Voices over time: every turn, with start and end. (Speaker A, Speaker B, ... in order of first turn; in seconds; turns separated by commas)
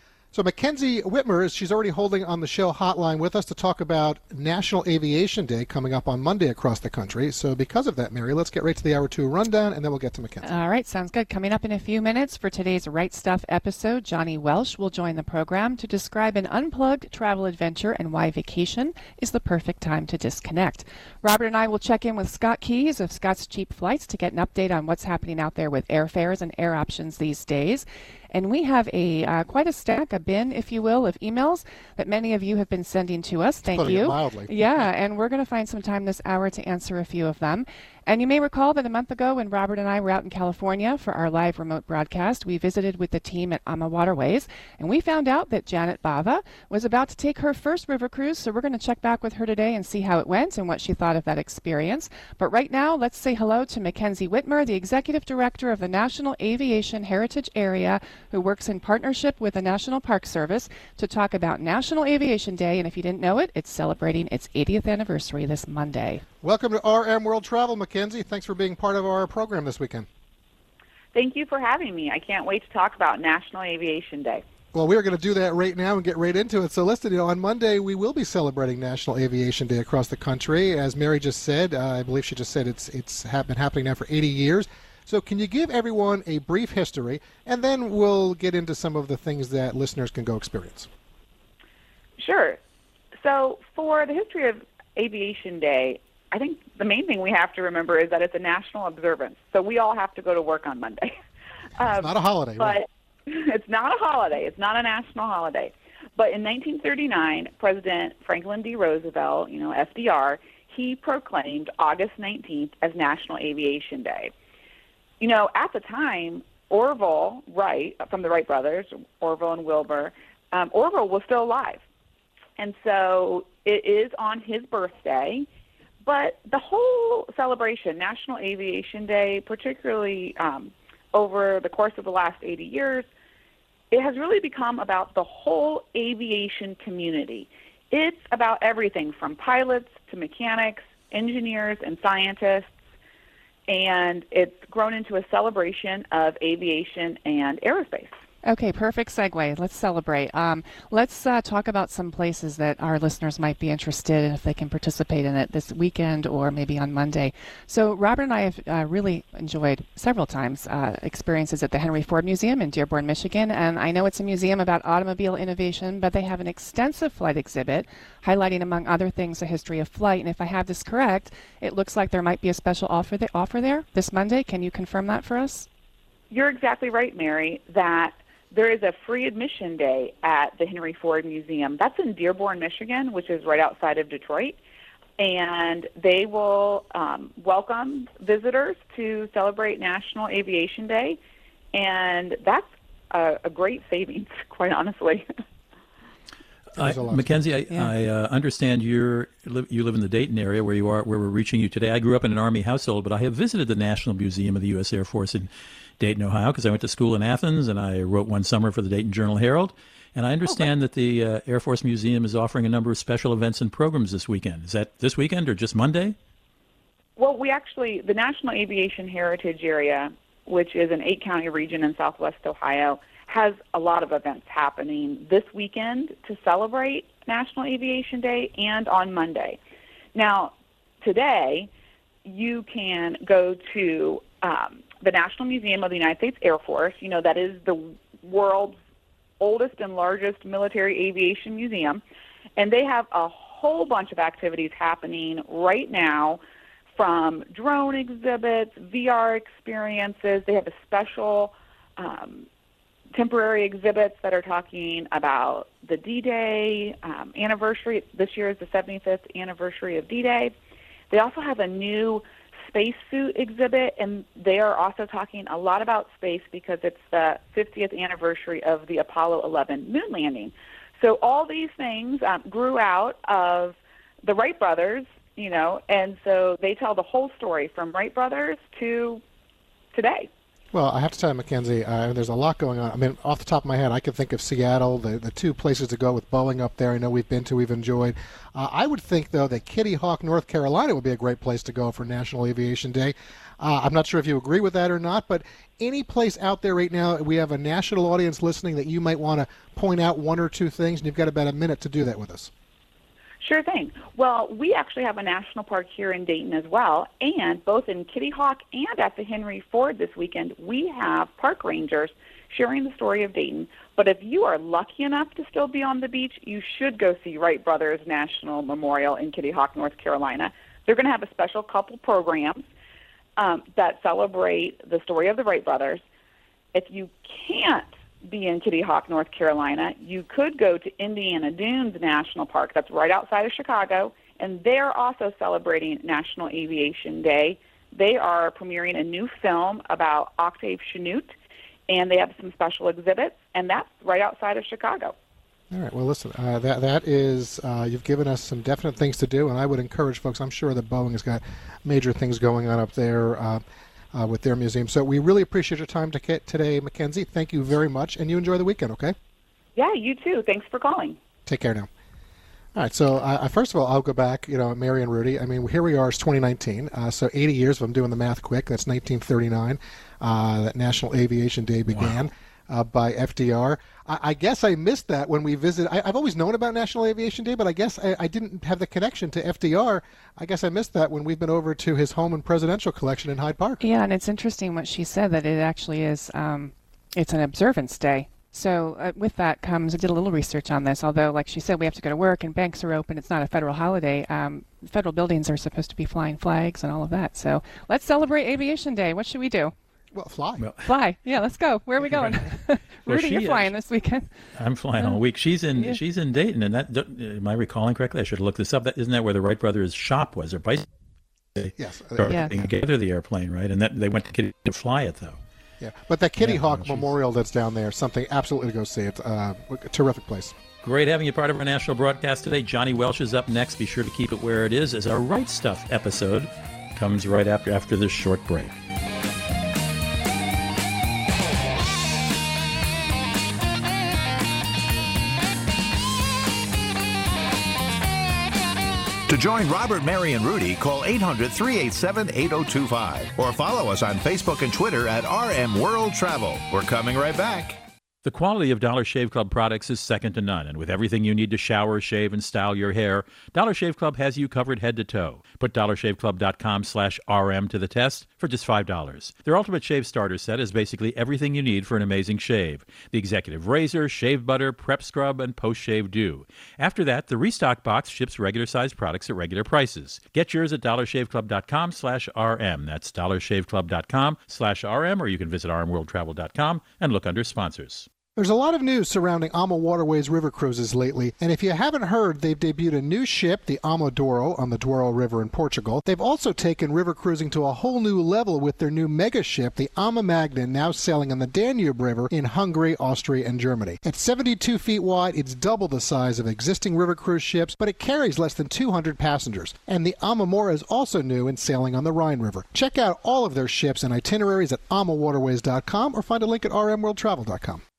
Speaker A: 0.3-10.5, Speaker B: 10.4-66.2, Speaker A: 33.7-34.9, Speaker A: 66.4-70.1, Speaker C: 71.1-74.4, Speaker A: 74.7-90.9, Speaker C: 92.2-92.6, Speaker C: 93.2-101.2, Speaker C: 101.8-114.3, Speaker A: 101.9-102.8, Speaker C: 115.2-121.8, Speaker C: 122.6-125.5, Speaker C: 126.0-133.1, Speaker C: 133.9-142.7, Speaker C: 143.7-148.1, Speaker B: 148.4-175.7, Speaker C: 176.3-184.6, Speaker C: 185.2-191.2, Speaker C: 191.7-195.2, Speaker D: 196.8-216.2, Speaker A: 196.8-197.4, Speaker C: 217.2-229.6, Speaker C: 230.1-231.7, Speaker C: 232.2-238.8, Speaker C: 239.4-242.0, Speaker C: 242.6-246.4, Speaker C: 246.9-252.5, Speaker C: 253.1-260.5, Speaker C: 261.1-279.2, Speaker C: 279.9-280.3, Speaker A: 280.7-302.5, Speaker C: 303.4-322.6, Speaker C: 323.4-326.0, Speaker C: 326.7-341.3, Speaker C: 341.9-345.1, Speaker A: 345.7-359.1, Speaker C: 359.8-361.2, Speaker A: 361.4-361.9, Speaker A: 362.7-383.8, Speaker B: 383.8-399.7, Speaker A: 400.1-400.7, Speaker B: 400.8-404.3, Speaker D: 403.1-403.7, Speaker D: 404.6-410.9, Speaker D: 411.5-415.4, Speaker A: 411.8-412.7, Speaker B: 412.2-412.5, Speaker A: 415.8-420.5, Speaker D: 416.4-417.1, Speaker D: 420.8-428.7, Speaker E: 439.3-447.8, Speaker D: 448.2-478.1, Speaker A: 478.4-507.8